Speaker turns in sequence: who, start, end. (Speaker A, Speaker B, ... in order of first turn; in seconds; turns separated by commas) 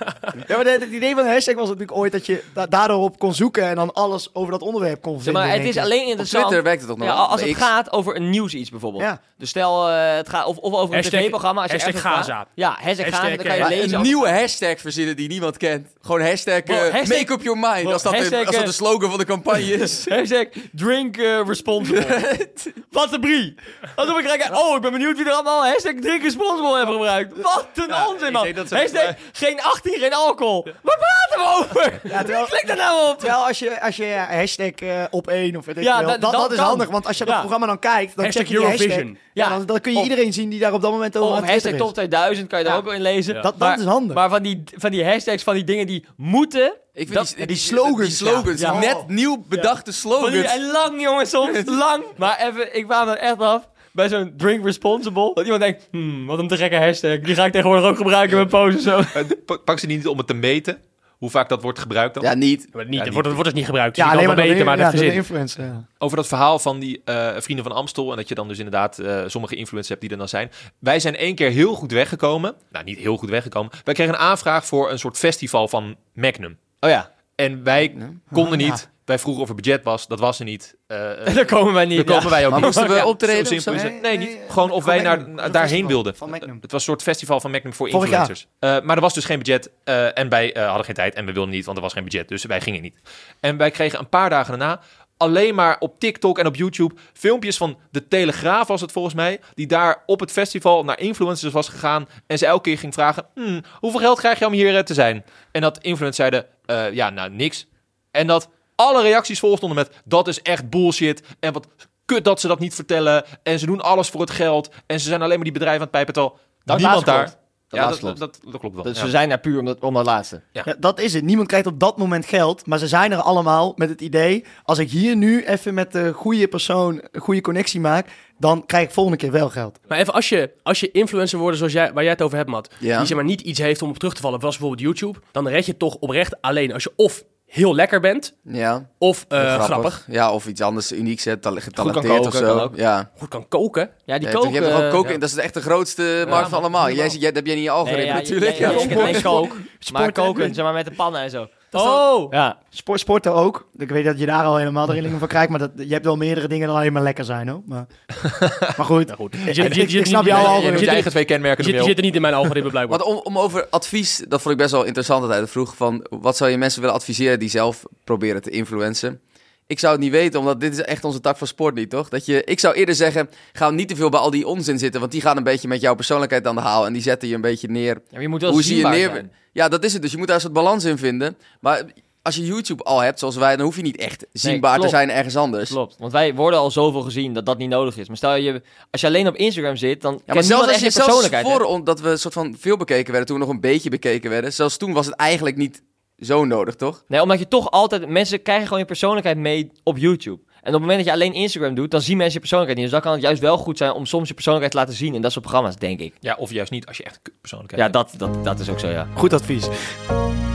Speaker A: 0.5-5.9, Speaker B: 5.2-14.2, Speaker C: 6.2-7.7, Speaker D: 10.9-14.0, Speaker C: 13.6-20.1, Speaker B: 16.6-18.8, Speaker B: 19.9-22.2, Speaker C: 21.9-22.8, Speaker B: 22.9-33.3, Speaker E: 27.9-29.2, Speaker A: 32.1-41.9, Speaker B: 35.8-37.5, Speaker D: 38.2-39.2, Speaker B: 39.4-40.1, Speaker B: 41.2-47.3, Speaker A: 43.4-44.2, Speaker C: 47.0-50.6, Speaker A: 47.4-49.1, Speaker B: 48.5-48.9, Speaker B: 49.5-59.3, Speaker C: 51.4-51.8, Speaker E: 59.1-62.3, Speaker C: 62.2-62.7, Speaker D: 62.7-65.2, Speaker E: 63.0-63.4, Speaker A: 64.0-65.8, Speaker E: 66.0-76.6, Speaker B: 76.8-77.1, Speaker E: 77.4-119.1, Speaker A: 78.3-78.8, Speaker B: 81.3-83.1, Speaker C: 82.5-83.9, Speaker A: 83.7-86.6, Speaker A: 87.9-88.3, Speaker B: 116.7-118.2, Speaker B: 118.8-120.4, Speaker A: 120.7-129.8, Speaker D: 129.9-138.4, Speaker C: 132.8-133.1, Speaker C: 138.5-143.1, Speaker D: 139.0-140.0, Speaker B: 141.8-142.7, Speaker D: 143.2-143.9, Speaker B: 144.1-145.1, Speaker C: 144.2-149.5, Speaker D: 146.3-146.6, Speaker B: 147.8-152.6, Speaker D: 148.6-148.9, Speaker A: 148.7-150.6, Speaker D: 151.7-152.3, Speaker A: 152.7-157.9, Speaker E: 158.2-158.7, Speaker A: 158.8-161.0, Speaker D: 159.5-163.0, Speaker E: 160.3-162.0, Speaker C: 162.9-185.8, Speaker B: 178.1-179.3, Speaker B: 184.4-185.0, Speaker B: 185.7-191.6, Speaker C: 190.3-197.0, Speaker B: 197.1-206.2, Speaker E: 206.2-207.9, Speaker B: 207.8-209.1, Speaker A: 209.2-209.9